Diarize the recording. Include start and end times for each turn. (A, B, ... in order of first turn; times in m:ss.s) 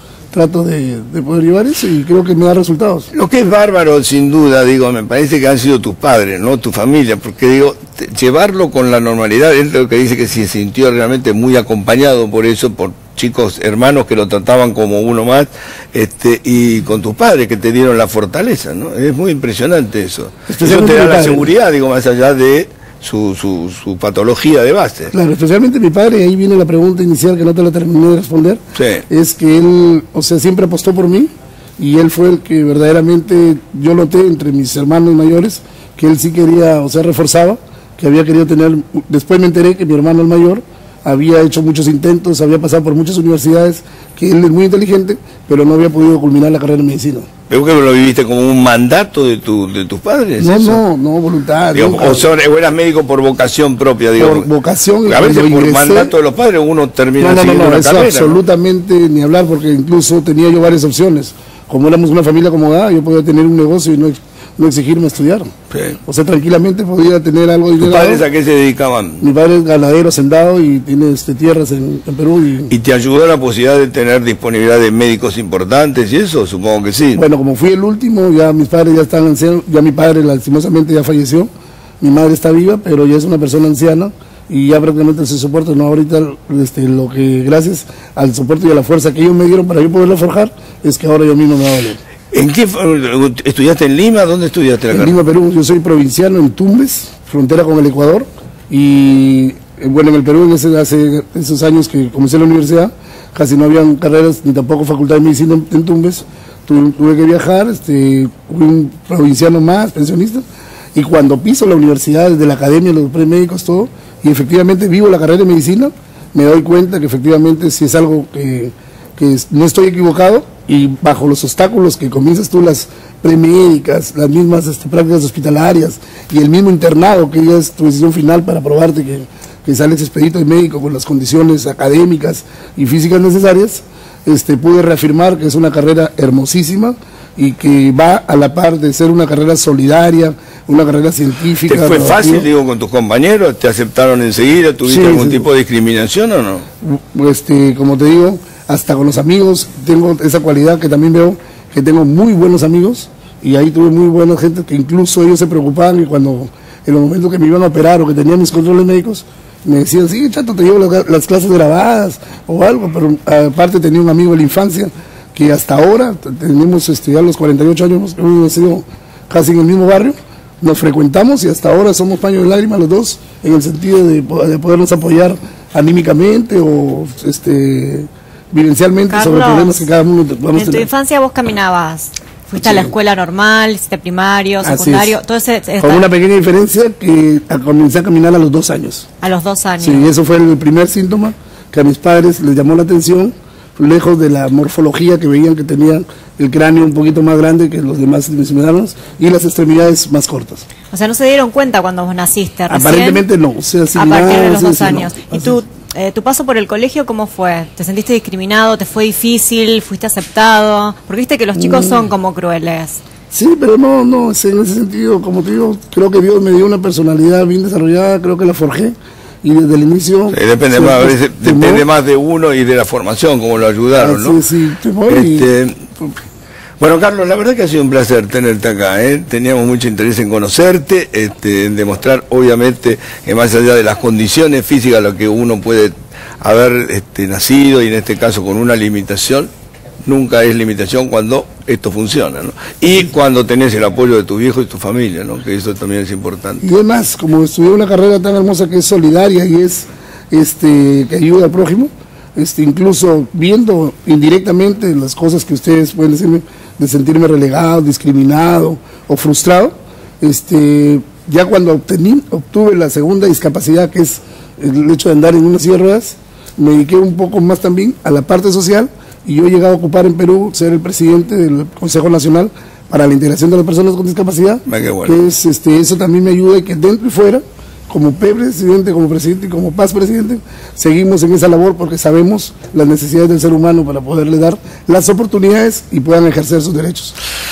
0:00.3-0:03.1 A
0:03.1-0:25.1 B
0:20.5-0:21.5 A
0:25.1-0:47.3 A
0:28.8-0:29.0 B
0:47.5-0:50.8 B
0:50.4-0:52.3 A
0:51.7-0:54.5 B
0:54.2-0:56.1 A
0:55.0-0:58.4 B
0:57.2-1:05.5 A
1:05.7-1:06.0 B
1:06.0-1:08.3 A
1:07.8-1:09.2 B
1:09.2-1:12.7 A
1:12.7-1:17.2 B
1:17.1-1:21.5 A
1:22.0-1:32.0 A
1:32.3-1:35.2 B
1:34.9-1:50.4 A
1:51.0-2:22.5 A
2:21.7-2:26.6 B
2:24.9-2:25.5 A
2:26.8-3:00.9 A
2:59.1-2:59.9 C
3:00.5-3:06.1 C
3:02.6-3:02.9 A
3:04.6-3:05.2 A
3:05.8-3:09.1 A
3:09.2-3:10.1 C
3:09.8-3:20.6 A
3:20.9-3:23.2 C
3:22.7-3:25.6 A
3:24.0-3:33.0 C
3:31.6-3:32.0 A
3:33.3-3:41.9 A
3:40.3-3:44.4 B
3:44.0-3:45.5 A
3:45.1-3:45.9 B
3:46.8-3:59.5 B
4:00.0-4:06.6 B
4:06.6-4:47.2 A
4:34.7-4:35.2 B